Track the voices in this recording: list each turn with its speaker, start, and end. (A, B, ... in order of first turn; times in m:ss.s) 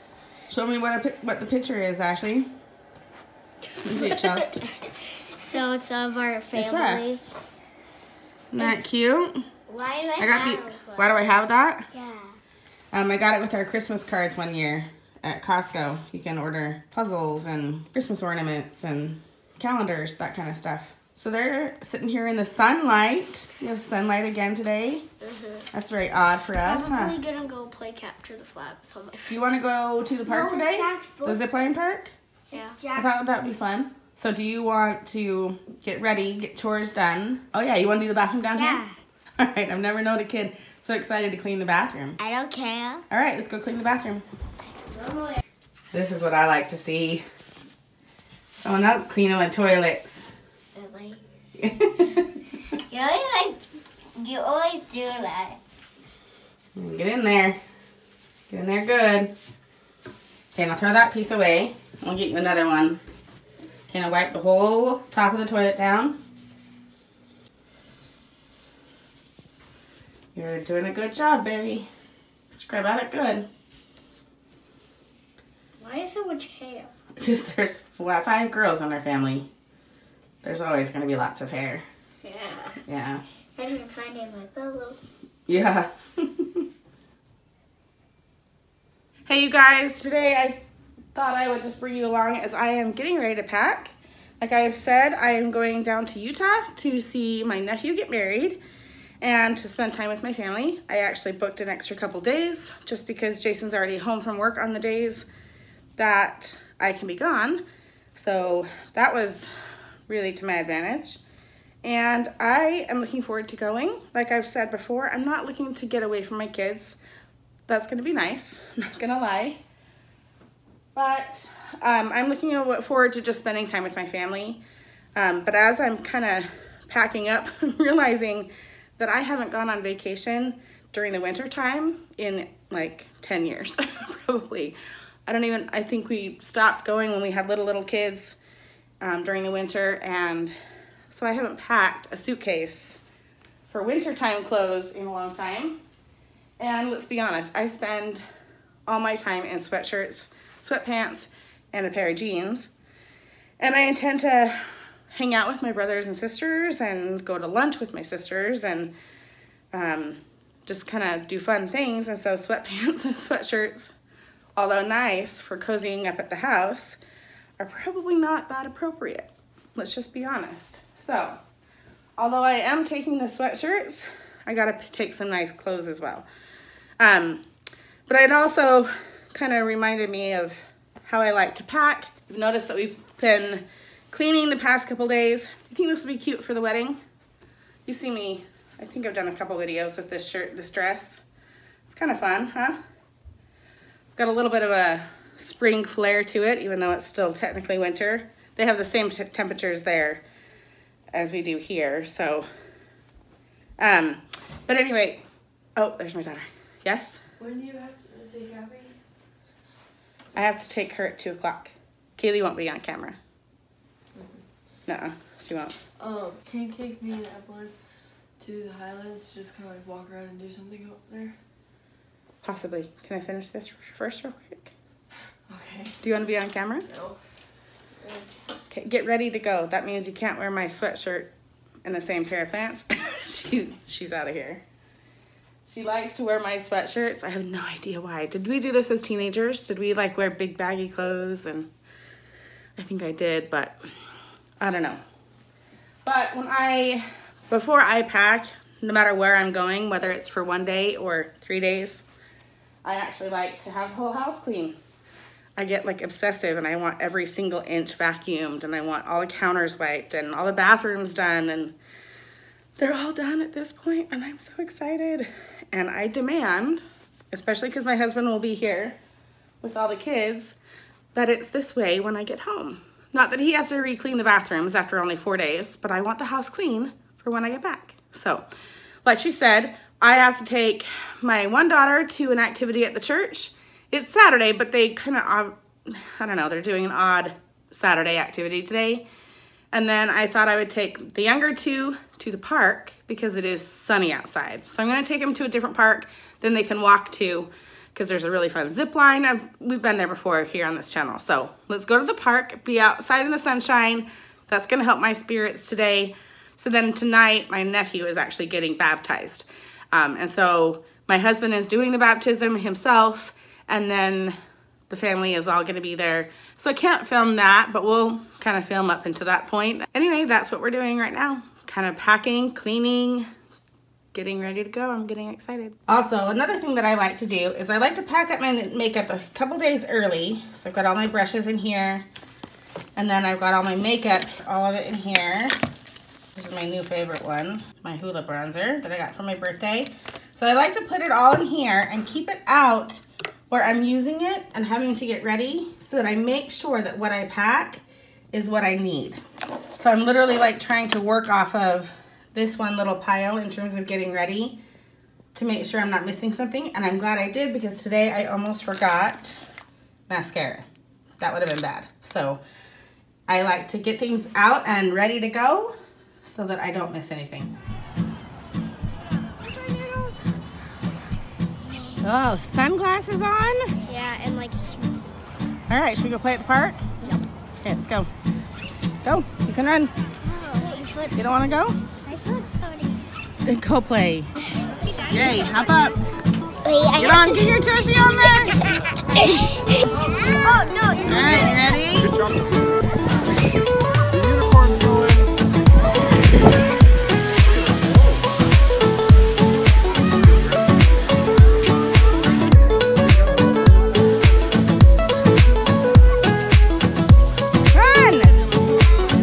0:00.5-0:02.5 A
0:03.8-0:04.6 A
0:03.9-0:04.2 B
0:05.4-0:07.3 B
0:06.5-0:07.3 A
0:08.5-0:09.4 A
0:08.6-0:08.8 B
0:09.7-0:11.3 B
0:10.2-0:11.9 A
0:11.9-0:12.4 B
0:12.9-0:25.0 A
0:25.2-0:25.7 B
0:25.7-0:27.2 A
0:26.6-0:29.6 B
0:29.3-0:32.1 A
0:30.3-0:31.4 B
0:32.5-0:33.1 B
0:32.9-0:38.8 A
0:38.6-0:39.0 B
0:39.4-0:42.2 A
0:42.2-0:43.0 B
0:43.1-0:44.2 A
0:44.9-0:45.4 B
0:45.9-0:47.2 A
0:48.6-0:50.3 A
0:50.8-0:51.2 B
0:51.6-0:52.3 A
0:52.9-0:53.6 B
0:54.2-0:55.6 B
0:56.8-0:57.6 A
0:58.5-0:59.3 A
1:00.6-1:03.0 A
1:03.9-1:06.2 A
1:10.4-1:11.9 A
1:12.5-1:13.5 A
1:15.8-1:16.9 B
1:17.2-1:19.5 A
1:20.4-1:21.8 A
1:22.2-1:22.8 B
1:22.9-1:23.2 A
1:23.6-1:25.0 B
1:25.5-1:26.6 A
1:29.3-1:30.6 A
1:31.1-1:38.6 A
1:39.2-1:45.3 A
1:46.0-1:47.6 A
1:48.1-1:49.5 A
1:50.1-1:51.2 A
1:51.8-1:57.0 A
1:57.7-1:59.6 A
2:01.0-2:04.6 A
2:05.2-2:18.4 A
2:19.0-2:20.5 A
2:21.1-2:23.0 A
2:23.7-2:25.8 A
2:26.6-2:28.2 A
2:28.9-2:32.7 A
2:33.6-2:34.6 A
2:35.1-2:38.9 A
2:39.7-2:43.9 A
2:44.6-2:47.0 A
2:47.6-2:51.4 A
2:52.2-2:56.3 A
2:57.0-2:57.4 A
2:58.1-3:07.0 A
3:07.9-3:11.2 A
3:11.9-3:12.8 A
3:14.2-3:20.2 A
3:21.1-3:22.5 A
3:23.8-3:25.2 A
3:25.8-3:27.2 A
3:27.4-3:29.0 C
3:30.4-3:33.2 A
3:34.2-3:34.4 C
3:34.9-3:35.8 A
3:36.0-3:37.7 C
3:38.4-3:41.4 C
3:42.4-3:44.7 A
3:45.5-3:46.0 C
3:46.0-3:46.8 A
3:46.9-3:47.2 C
3:48.7-3:51.3 A
3:51.8-3:54.6 A
3:55.7-4:01.7 A
4:02.8-4:03.8 A
4:04.6-4:05.0 A
4:06.0-4:12.0 A
4:12.8-4:14.8 A
4:15.6-4:21.8 A
4:22.8-4:29.0 A
4:29.6-4:30.6 A
4:31.1-4:38.4 A
4:39.0-4:49.1 A
4:49.7-5:14.4 A
5:14.9-5:23.3 A
5:24.1-5:32.1 A
5:33.0-5:35.6 A
5:36.4-5:49.2 A
5:49.8-5:54.6 A
5:55.3-5:59.4 A
6:00.1-6:00.7 A
6:01.2-6:02.4 A
6:03.3-6:07.5 A
6:12.0-6:13.7 A
6:13.9-6:15.1 B
6:15.7-6:16.8 A
6:17.6-6:18.1 A
6:19.0-6:19.9 A
6:20.2-6:21.2 B
6:21.1-6:21.8 A
6:22.0-6:23.0 B
6:23.4-6:24.3 A
6:24.8-6:25.2 B
6:25.1-6:26.0 A
6:26.6-6:27.6 B
6:27.0-6:28.6 A
6:29.2-6:29.5 B
6:30.2-6:31.8 B
6:31.0-6:32.2 A
6:47.7-6:48.4 A